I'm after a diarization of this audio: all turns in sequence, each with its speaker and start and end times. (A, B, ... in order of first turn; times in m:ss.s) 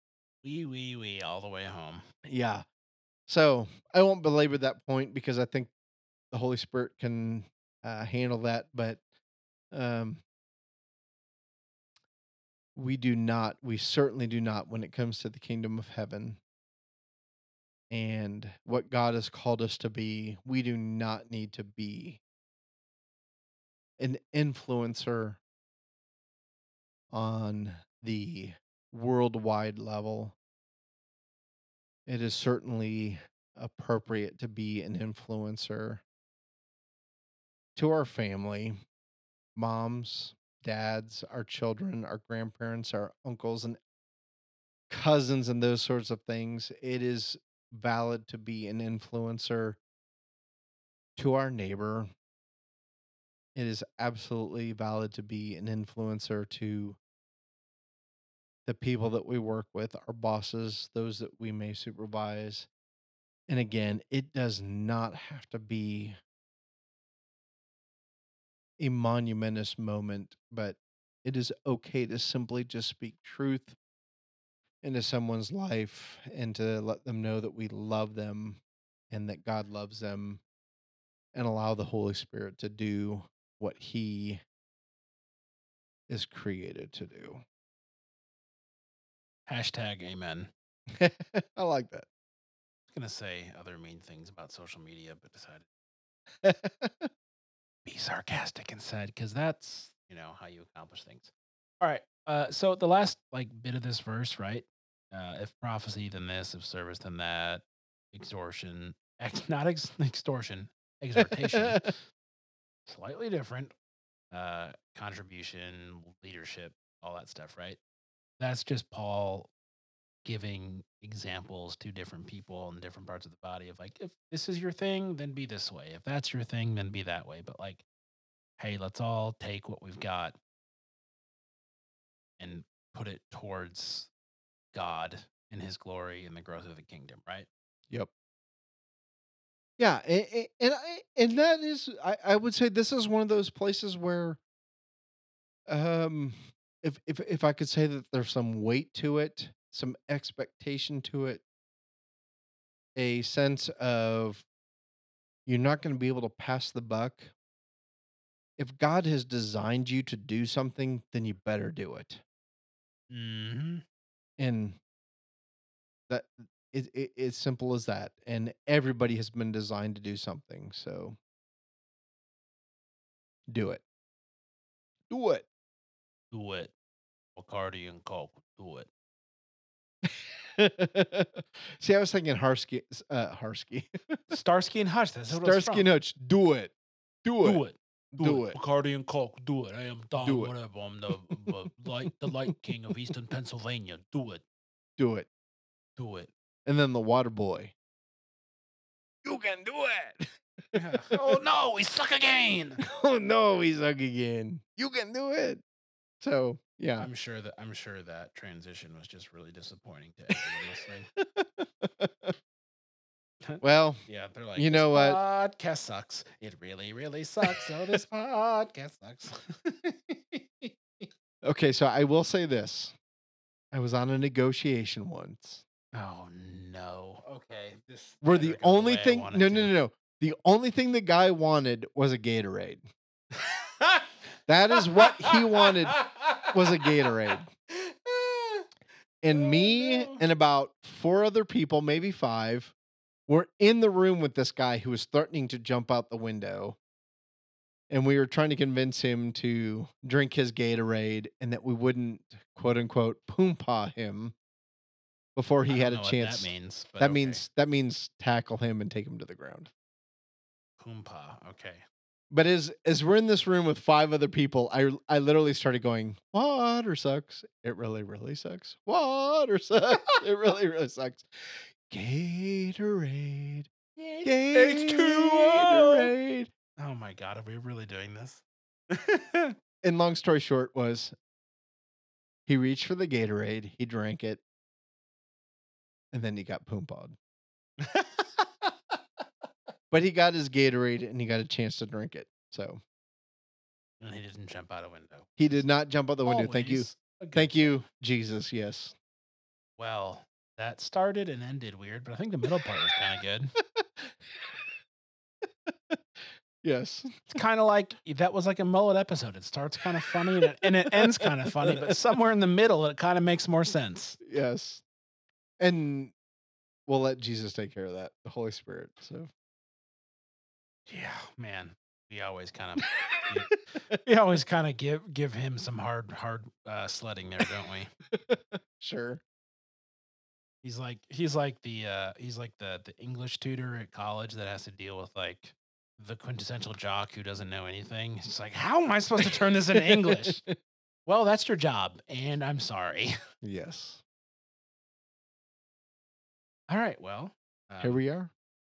0:00.4-0:02.0 A
0:02.2-0:02.6 B
0:03.3-0:05.7 B
0:06.3-0:09.0 B
0:09.7-0:10.2 B
0:12.8-0:16.4 B
0:17.9-0:22.2 B
0:24.0-0:25.4 B
0:27.1-0:30.4 B
0:32.1-0:36.0 B
0:37.8-0:38.8 B
0:39.6-0:43.8 B
0:44.9-0:49.8 B
0:51.2-0:52.1 B
0:53.6-0:57.0 B
0:58.7-1:02.7 B
1:03.5-1:06.2 B
1:08.8-1:13.8 B
1:14.8-1:20.4 B
1:21.3-1:24.4 B
1:26.1-1:27.4 B
1:29.5-1:30.5 A
1:30.9-1:32.1 B
1:32.9-1:35.7 A
1:36.4-1:37.1 B
1:37.8-1:52.0 A
1:51.2-1:51.9 B
1:52.9-1:53.7 A
1:54.3-1:57.8 A
1:58.4-1:59.5 A
2:00.2-2:07.8 A
2:08.6-2:10.4 A
2:12.4-2:14.1 A
2:14.7-2:17.5 A
2:19.8-2:24.4 B
2:25.7-2:31.4 B
2:33.0-2:34.5 B
2:35.5-2:37.3 B
2:38.6-2:42.2 B
2:43.1-2:43.8 A
2:44.4-2:44.8 B
2:46.1-2:51.2 B
2:53.5-2:53.8 B
2:55.1-2:55.5 B
2:56.3-2:56.7 A
2:57.4-2:58.9 A
3:00.0-3:04.2 B
3:04.3-3:05.9 A
3:05.3-3:06.7 B
3:07.2-3:07.6 B
3:07.4-3:14.4 A
3:08.1-3:08.6 B
3:10.2-3:10.5 B
3:12.0-3:12.5 B
3:15.0-3:15.3 B
3:16.0-3:16.3 A
3:16.7-3:17.7 B
3:19.2-3:21.4 B
3:20.7-3:22.8 A
3:22.8-3:25.6 B
3:26.2-3:27.1 B
3:27.0-3:31.1 A
3:30.4-3:30.6 B
3:31.2-3:32.4 B
3:33.4-3:41.1 A
3:33.6-3:34.0 B
3:34.6-3:35.2 B
3:37.5-3:38.0 B
3:41.4-3:43.0 B
3:43.7-3:45.6 B
3:45.9-3:49.7 A
3:48.2-3:52.8 B
3:53.4-3:54.1 A
3:54.5-3:57.5 B
3:54.7-3:58.7 A
3:59.2-4:02.7 B
3:59.3-4:00.2 A
4:03.3-4:06.8 B
4:07.9-4:14.4 B
4:15.4-4:19.7 B
4:15.6-4:17.4 A
4:20.8-4:21.8 A
4:22.3-4:33.7 B
4:34.0-4:36.1 A
4:34.2-4:36.5 B
4:36.8-4:39.6 A
4:39.8-4:41.1 B
4:42.5-4:44.4 B
4:46.1-4:47.2 B
4:47.8-4:48.7 A
4:49.9-4:52.8 B
4:54.0-4:55.4 A
4:55.4-4:59.0 B
4:56.2-4:57.8 A
4:59.8-5:03.6 A
5:03.7-5:04.6 B
5:05.4-5:07.4 B
5:07.3-5:14.2 A
5:10.4-5:11.8 B
5:14.2-5:14.8 B
5:15.6-5:16.1 B
5:16.9-5:19.3 B
5:20.9-5:27.9 A
5:22.9-5:23.8 B
5:28.1-5:29.2 B
5:30.6-5:40.4 A
5:39.2-5:40.6 B
5:41.1-5:43.2 A
5:43.4-5:44.0 B
5:46.7-5:48.0 A
5:47.8-5:48.3 B